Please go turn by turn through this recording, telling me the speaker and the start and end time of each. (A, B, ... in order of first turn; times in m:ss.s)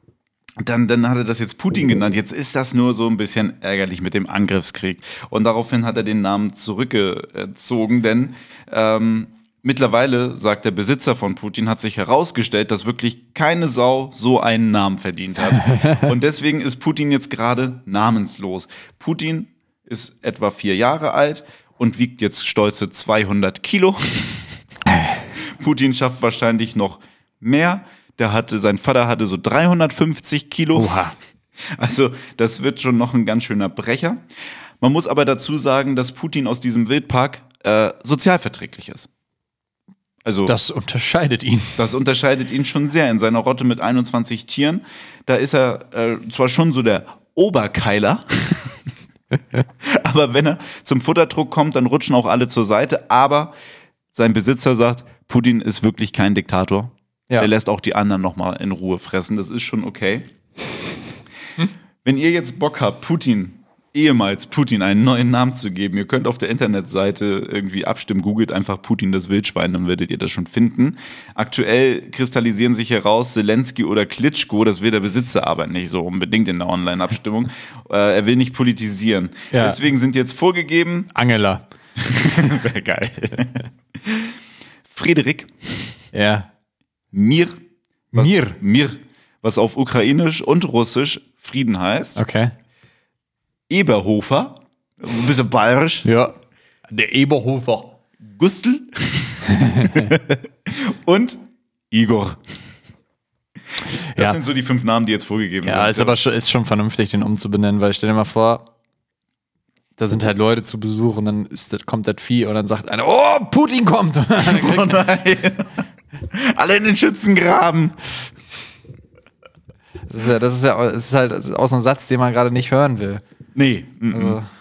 0:00.6-0:24.6 A
0:15.8-0:16.0 B
0:25.4-0:31.0 A
0:30.8-0:31.2 B
0:31.6-0:34.2 A
0:34.8-0:39.1 A
0:40.2-0:40.6 A
0:40.5-0:41.8 B
0:41.8-0:48.8 A
0:49.8-0:53.5 A
0:54.1-1:00.3 A
1:02.0-1:21.1 A
1:19.5-1:19.8 B
1:21.1-1:21.6 B
1:22.0-1:24.4 A
1:24.9-1:26.0 A
1:26.1-1:26.5 B
1:27.1-1:27.6 A
1:28.1-1:28.6 B
1:28.1-1:32.2 A
1:32.2-1:32.5 B
1:33.7-1:36.1 A
1:36.0-1:36.3 B
1:36.9-1:38.0 B
1:38.2-1:42.6 A
1:39.5-1:40.1 B
1:44.1-1:44.4 B
1:44.2-1:46.2 A
1:45.6-1:48.7 B
1:50.0-1:55.0 B
1:54.4-1:58.0 A
2:00.1-2:03.2 B
2:03.6-2:04.4 A
2:04.1-2:04.5 B